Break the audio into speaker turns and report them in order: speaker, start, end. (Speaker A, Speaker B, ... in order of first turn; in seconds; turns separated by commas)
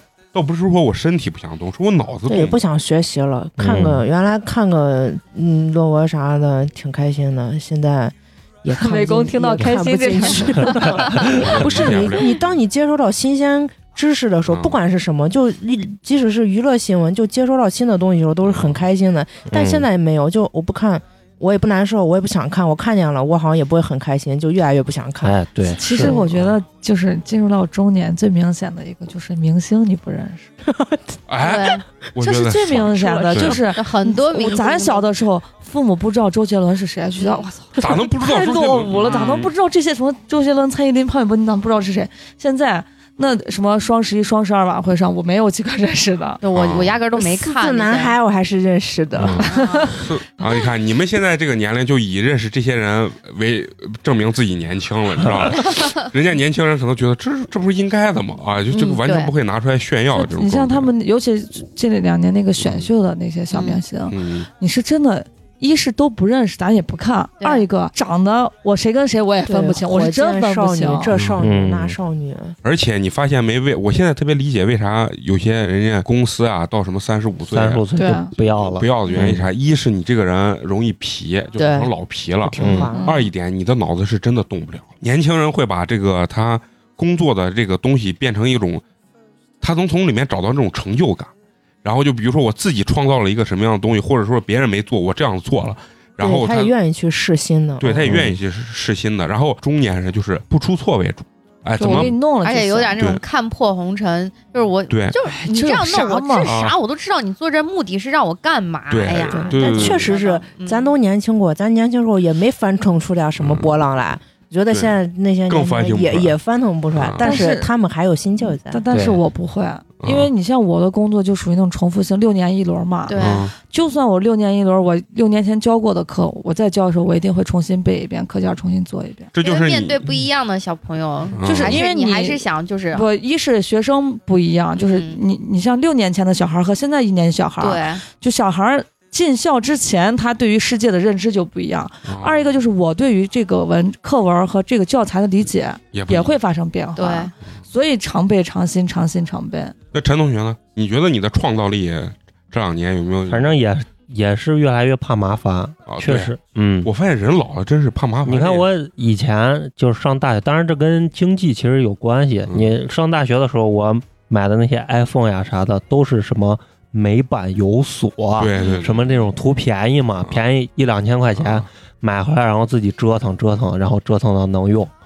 Speaker A: 0.3-2.6, Speaker B: 2.3-25.4, Speaker C: 3.6-4.0, Speaker D: 8.7-12.2, Speaker C: 10.9-11.6, Speaker A: 11.2-12.5, Speaker A: 14.5-14.8, Speaker A: 18.4-18.8, Speaker C: 19.5-19.9, Speaker C: 25.2-26.2, Speaker D: 25.8-30.5, Speaker B: 26.0-26.2, Speaker A: 26.2-26.5, Speaker B: 30.7-31.2, Speaker A: 31.3-33.6, Speaker E: 31.4-31.8, Speaker D: 32.2-46.4, Speaker B: 32.9-33.6, Speaker E: 33.7-35.1, Speaker E: 37.2-37.5, Speaker A: 37.8-39.5, Speaker E: 39.0-39.4, Speaker E: 46.4-48.1, Speaker A: 46.5-47.0, Speaker B: 47.1-49.5, Speaker A: 49.2-60.9, Speaker D: 49.3-49.9, Speaker E: 49.4-49.9, Speaker E: 58.7-59.3, Speaker D: 60.1-71.1, Speaker A: 62.6-62.9, Speaker E: 63.5-63.8, Speaker A: 64.1-64.5, Speaker E: 67.4-67.7, Speaker B: 69.5-72.6, Speaker A: 71.1-71.4, Speaker C: 71.4-72.0, Speaker A: 72.6-88.8, Speaker C: 77.5-79.5, Speaker D: 78.0-78.3, Speaker E: 81.6-81.9, Speaker B: 82.4-83.1, Speaker C: 82.6-82.9, Speaker D: 82.9-83.3, Speaker A: 89.6-91.3, Speaker A: 91.8-96.7, Speaker B: 96.2-98.2, Speaker A: 97.8-102.2, Speaker C: 98.0-98.4, Speaker D: 101.8-103.1, Speaker E: 101.8-110.9, Speaker A: 104.9-105.2, Speaker D: 105.3-106.5, Speaker A: 106.5-106.8, Speaker A: 108.9-110.2, Speaker B: 109.3-118.8, Speaker A: 113.4-113.7, Speaker A: 115.5-116.3, Speaker A: 117.0-117.4, Speaker D: 117.2-117.7, Speaker D: 118.5-129.3, Speaker C: 118.9-119.2, Speaker A: 120.0-120.3, Speaker E: 123.1-123.5, Speaker A: 123.2-123.5, Speaker A: 129.3-130.2, Speaker E: 129.4-133.1, Speaker A: 131.3-131.8, Speaker D: 131.4-149.8, Speaker E: 134.8-135.2, Speaker E: 137.6-138.0, Speaker A: 142.1-142.6, Speaker A: 145.9-146.4, Speaker E: 147.0-147.3, Speaker A: 149.9-153.6, Speaker C: 153.3-156.9, Speaker A: 155.9-156.3, Speaker A: 156.8-158.7, Speaker C: 158.2-174.9, Speaker A: 168.4-169.1, Speaker A: 171.4-171.6